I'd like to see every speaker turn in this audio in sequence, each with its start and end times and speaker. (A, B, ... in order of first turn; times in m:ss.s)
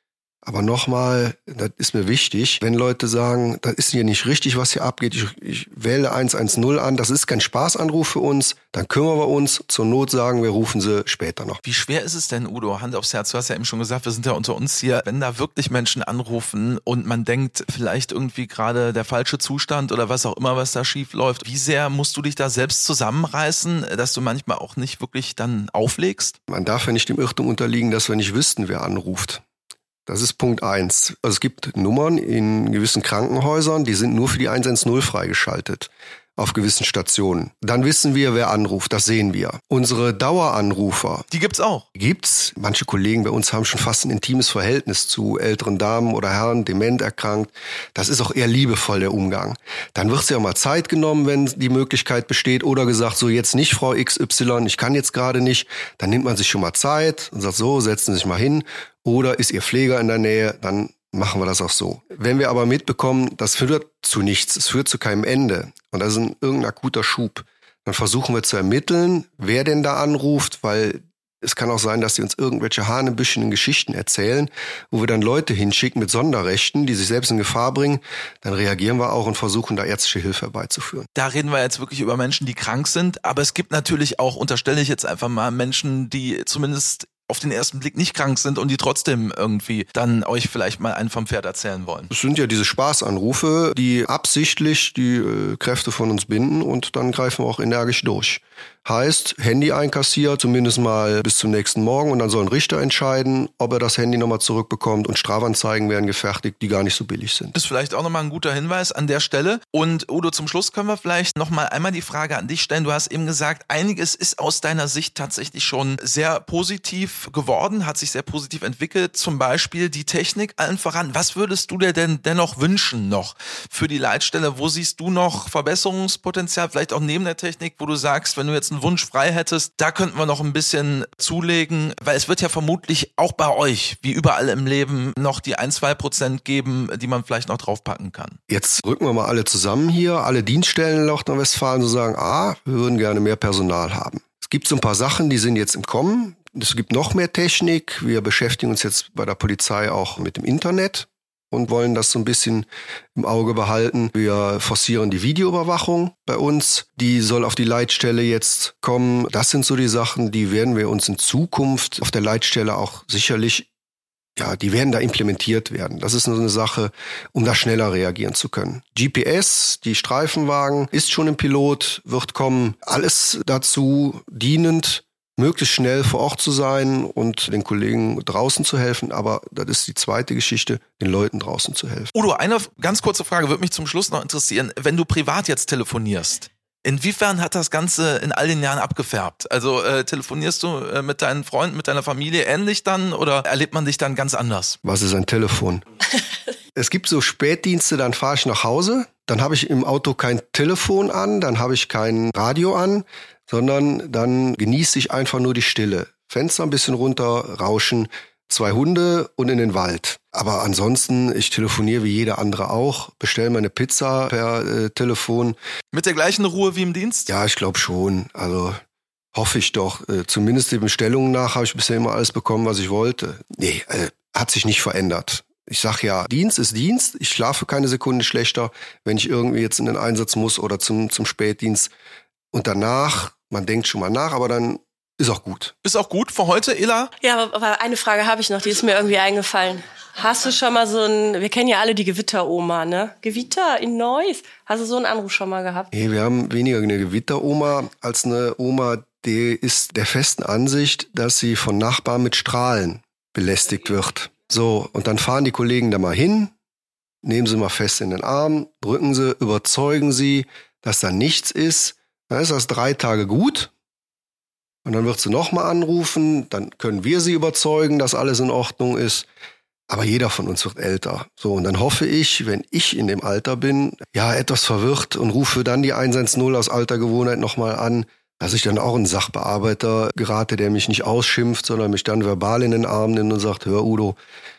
0:00.4-0:11.6 A
0:11.6-0:26.4 B
0:26.5-0:29.4 A
0:30.0-0:41.3 A
0:41.3-0:41.8 B
0:41.9-1:21.0 A
1:21.1-1:32.1 B
1:32.1-1:47.6 A
1:47.5-2:18.4 B
2:18.5-2:43.7 A
2:44.4-3:02.1 A
3:02.1-3:14.8 B
3:14.8-3:15.8 A
3:16.7-3:35.6 A
3:35.9-3:37.3 B
3:37.3-3:38.8 A
3:39.3-3:51.9 A
3:52.5-3:55.7 A
3:55.8-3:57.1 B
3:57.2-4:05.9 C
4:05.9-4:16.5 A
4:17.2-4:23.7 A
4:24.8-4:29.3 A
4:29.9-4:44.2 A